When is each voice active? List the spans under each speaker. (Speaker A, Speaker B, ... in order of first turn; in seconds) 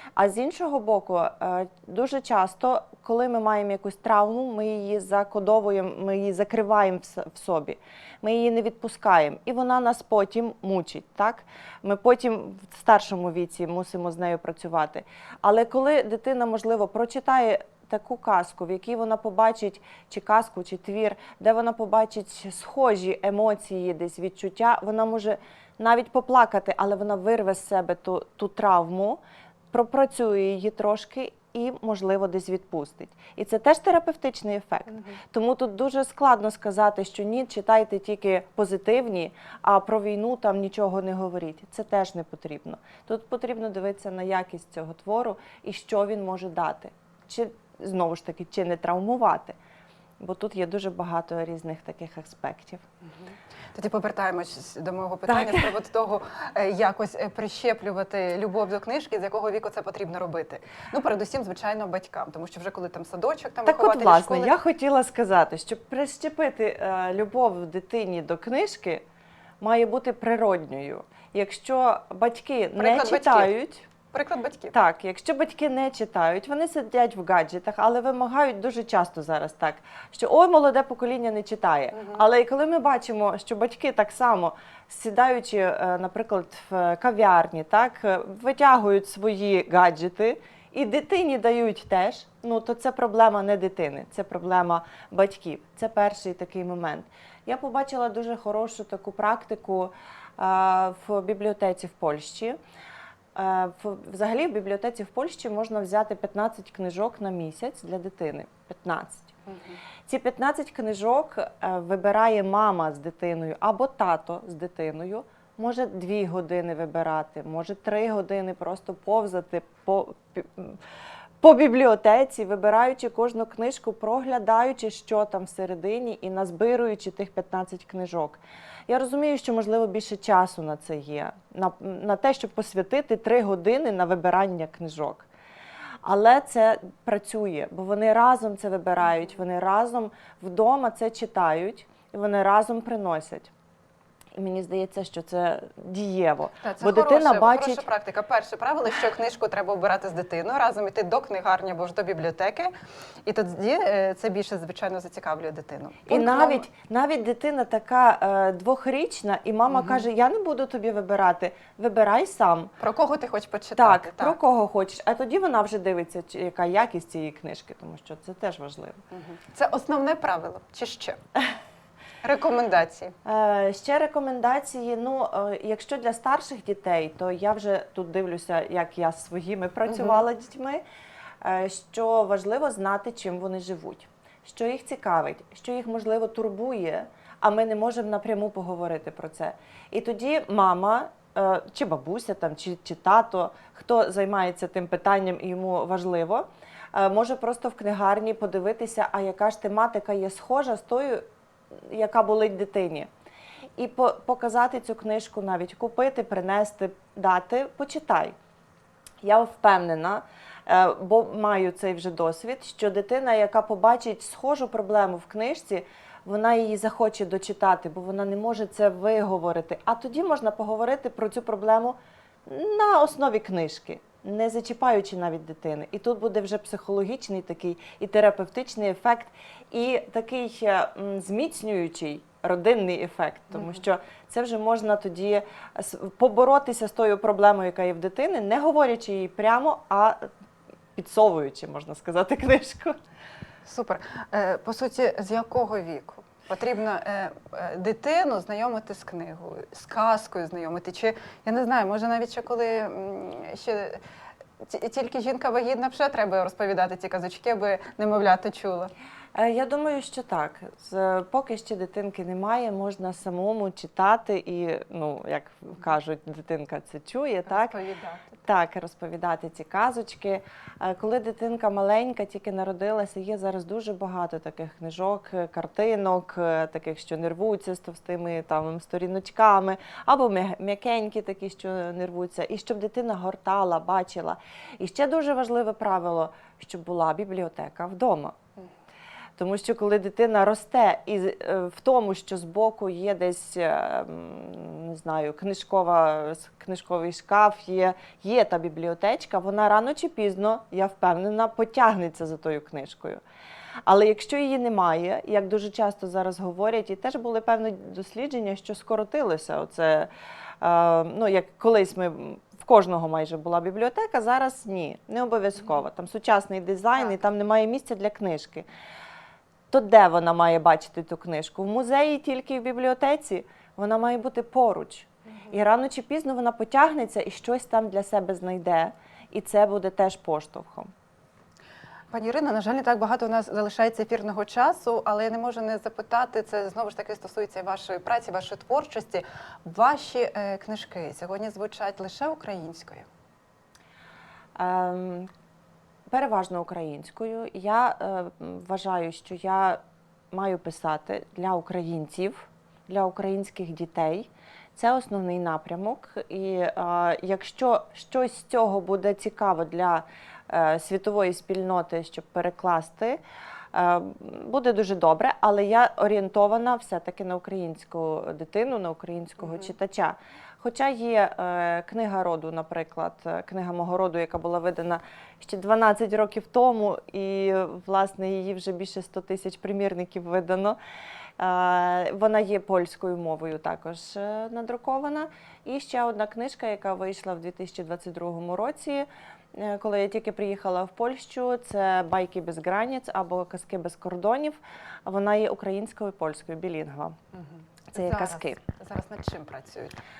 Speaker A: 0.2-29.2, 29.7-49.5, 50.2-52.8, 55.3-55.6, 63.6-69.0, 69.6-73.9, 74.7-102.6, 103.3-109.4, 110.1-120.8, 121.4-135.3, 136.0-143.5, 144.3-147.8, 156.1-162.7, 163.8-169.0, 173.2-180.8, 181.4-201.2, 201.8-203.1, 203.8-208.3, 209.2-240.3, 240.9-242.9, 259.3-267.7, 268.4-288.4, 289.4-303.2, 303.9-310.1, 310.6-318.7, 319.7-330.9, 344.6-345.3, 346.1-349.8, 350.3-363.2, 363.7-380.8, 381.4-397.2, 397.9-398.6
Speaker B: 53.1-64.5, 72.8-74.7, 109.5-109.8, 146.6-152.7, 153.2-156.7, 159.7-160.0, 162.8-164.4, 169.1-171.2, 172.2-173.1, 179.9-180.2, 243.6-254.0, 254.6-258.9, 267.4-268.4, 332.1-343.1, 397.3-400.0